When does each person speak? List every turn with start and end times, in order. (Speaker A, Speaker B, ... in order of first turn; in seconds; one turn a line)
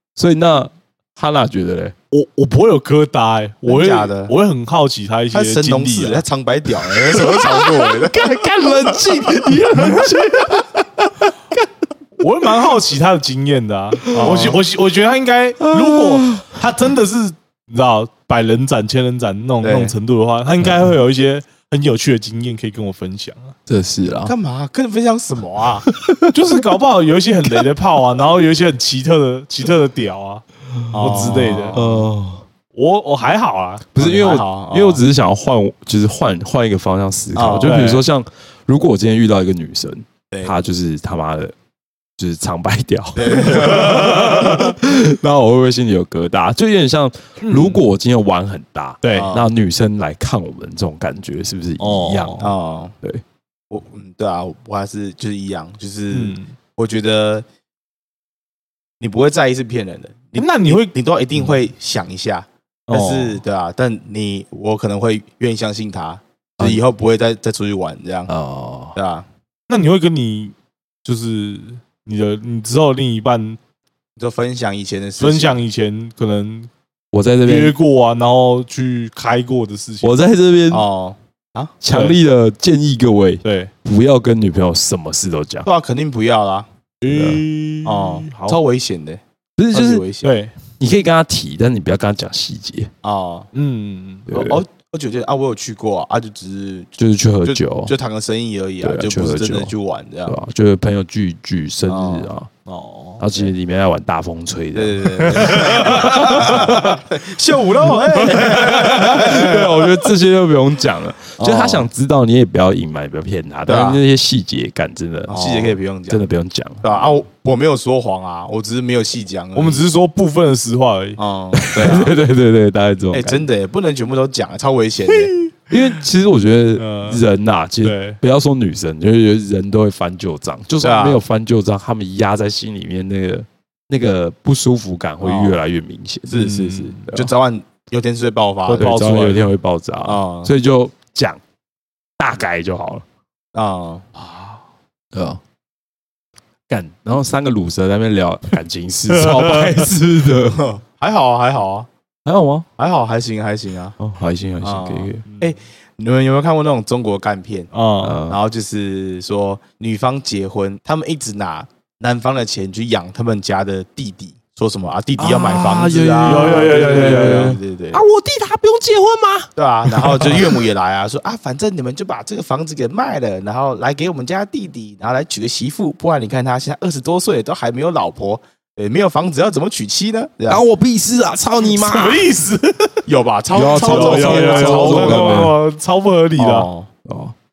Speaker A: 0.2-1.9
Speaker B: 2.1-6.2
Speaker C: 3.6-4.3
Speaker C: 5.3-9.4
Speaker A: 6.9-11.3
Speaker B: 12.2-23.5
Speaker C: 14.1-14.6
Speaker A: 14.1-14.5
Speaker A: 15.6-16.6
Speaker C: 19.6-19.9
Speaker A: 20.6-20.9
Speaker A: 23.7-24.3
Speaker C: 24.2-25.9
Speaker A: 25.9-26.4
Speaker B: 26.3-31.8
Speaker C: 30.9-32.0
Speaker A: 31.0-32.5
Speaker B: 32.8-34.3
Speaker A: 34.0-41.5
Speaker C: 34.0-35.0
Speaker C: 37.4-37.8
Speaker B: 37.6-38.0
Speaker A: 42.2-52.5
Speaker C: 43.2-44.7
Speaker B: 47.4-47.8
Speaker B: 49.0-49.3
Speaker C: 49.1-49.5
Speaker B: 51.8-52.5
Speaker C: 52.4-52.9
Speaker C: 53.7-57.5
Speaker B: 56.1-56.5
Speaker C: 59.0-68.3
Speaker B: 60.4-60.9
Speaker B: 62.9-63.4
Speaker A: 68.3-69.0
Speaker C: 69.0-69.3
Speaker B: 69.7-70.5
Speaker B: 71.0-73.6
Speaker C: 74.2-75.6
Speaker B: 75.2-76.7
Speaker A: 77.1-77.8
Speaker B: 77.5-80.1
Speaker A: 80.0-80.8
Speaker C: 80.7-81.7
Speaker A: 81.8-85.7
Speaker B: 81.9-82.2
Speaker B: 83.4-83.7
Speaker C: 85.7-86.7
Speaker B: 87.0-88.6
Speaker A: 87.1-87.4
Speaker C: 87.8-89.2
Speaker A: 89.6-90.1
Speaker C: 89.7-90.3
Speaker B: 90.2-90.5
Speaker A: 90.8-92.9
Speaker C: 93.0-93.5
Speaker B: 93.5-94.3
Speaker A: 94.3-94.6
Speaker C: 94.3-96.9
Speaker A: 97.0-97.9
Speaker C: 97.4-100.4
Speaker A: 98.8-99.7
Speaker A: 100.3-102.5
Speaker C: 101.9-102.3
Speaker B: 102.7-103.2
Speaker A: 103.2-116.8
Speaker C: 104.7-109.9
Speaker C: 111.4-111.9
Speaker C: 113.7-114.0
Speaker C: 115.3-116.3
Speaker C: 116.8-119.9
Speaker B: 119.5-121.2
Speaker C: 121.2-122.2
Speaker A: 121.6-123.4
Speaker C: 123.1-125.3
Speaker A: 125.7-136.3
Speaker B: 126.8-127.2
Speaker B: 127.8-128.2
Speaker C: 130.8-131.2
Speaker C: 135.2-135.6
Speaker C: 136.3-138.9
Speaker B: 136.3-137.1
Speaker B: 138.7-139.5
Speaker A: 138.8-141.4
Speaker C: 140.0-140.5
Speaker A: 142.2-143.0
Speaker C: 143.5-144.1
Speaker B: 144.2-144.6
Speaker A: 145.1-145.4
Speaker A: 146.7-150.7
Speaker B: 149.2-149.8
Speaker C: 150.5-151.9
Speaker A: 152.2-152.7
Speaker C: 152.8-154.0
Speaker A: 154.0-155.2
Speaker C: 154.6-157.7
Speaker B: 155.3-155.5
Speaker B: 157.7-158.2
Speaker A: 158.0-158.4
Speaker C: 158.3-168.0
Speaker A: 165.2-170.6
Speaker B: 166.2-167.6
Speaker C: 169.6-180.6
Speaker A: 180.5-182.2
Speaker B: 181.7-183.0
Speaker C: 183.1-185.5
Speaker A: 183.5-185.6
Speaker B: 183.6-186.7
Speaker C: 186.4-186.9
Speaker A: 187.1-187.3